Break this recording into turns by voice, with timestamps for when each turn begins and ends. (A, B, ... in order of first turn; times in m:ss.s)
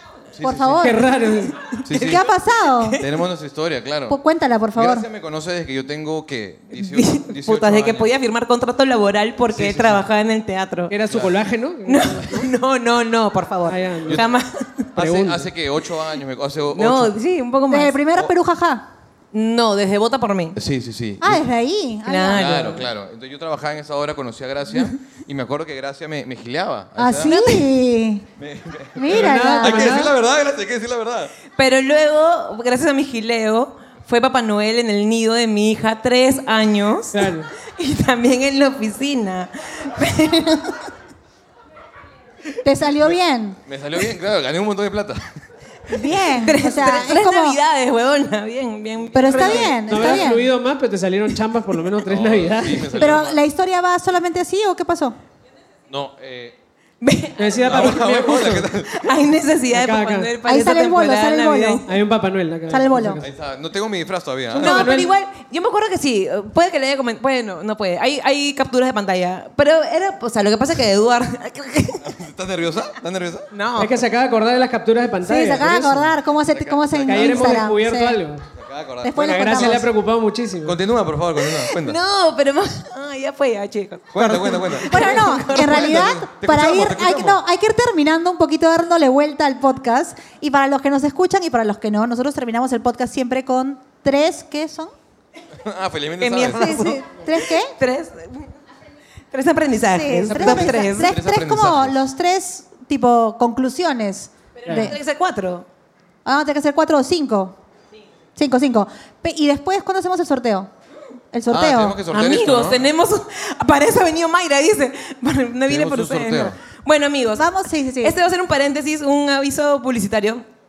0:00.3-0:00.9 A
0:00.4-0:01.2 B
0:00.8-0:01.6 C
0:01.5-0:03.2 D
0:01.8-0:02.2 A
0:01.9-0:03.0 B
0:03.0-0:04.2 A
0:04.1-0:05.1 B
0:04.7-0:08.1 A
0:06.7-0:10.9 D
0:09.5-0:10.0 A
0:10.9-0:12.5 C
0:11.1-0:11.3 A
0:11.8-0:14.9 D
0:13.7-0:14.2 C
0:15.0-0:15.5 C
0:15.0-0:17.1 A
0:16.7-0:18.0 D
0:17.7-0:18.8 B
0:19.3-0:20.6 D
0:20.5-0:21.4 A
0:21.2-0:22.7 B
0:22.0-0:22.8 D
0:22.3-0:27.3 A
0:27.0-0:28.3 B
0:27.2-0:27.7 D
0:28.4-0:31.3 A
0:29.0-0:30.0 B
0:29.1-0:30.2 C
0:31.5-0:40.8 D
0:37.1-0:37.5 C
0:42.6-0:43.6 B
0:43.6-0:45.3 A
0:45.9-0:47.6 B
0:46.3-0:50.0 D
0:49.1-0:50.5 B
0:49.3-0:50.2 A
0:49.9-0:53.2 C
0:52.0-0:53.4 A
0:53.0-0:55.2 B
0:55.9-0:56.6 A
0:57.0-1:01.9 D
0:57.4-0:58.7 C
0:57.6-0:59.0 A
0:59.7-1:00.3 C
1:00.4-1:01.8 B
1:01.8-1:03.3 C
1:02.7-1:03.2 B
1:03.2-1:04.9 A
1:04.5-1:05.1 C
1:04.6-1:12.1 D
1:12.0-1:13.5 A
1:13.5-1:14.0 D
1:13.8-1:16.1 C
1:15.2-1:18.2 B
1:16.5-1:17.6 A
1:17.0-1:18.4 C
1:18.5-1:19.8 A
1:19.0-1:19.9 B
1:19.2-1:20.8 C
1:20.6-1:22.0 A
1:21.4-1:26.2 D
1:24.1-1:27.4 A
1:24.9-1:34.9 B
1:35.6-1:36.9 A
1:36.2-1:38.5 D
1:36.5-1:37.7 B
1:39.3-1:41.2 D
1:39.9-1:45.0 B
1:40.4-1:42.0 A
1:44.6-1:45.7 D
1:46.2-1:47.6 B
1:48.4-1:50.7 B
1:51.3-1:52.0 B
1:51.5-1:52.8 A
1:52.1-2:00.4 D
1:55.7-1:56.6 A
1:57.4-1:58.2 B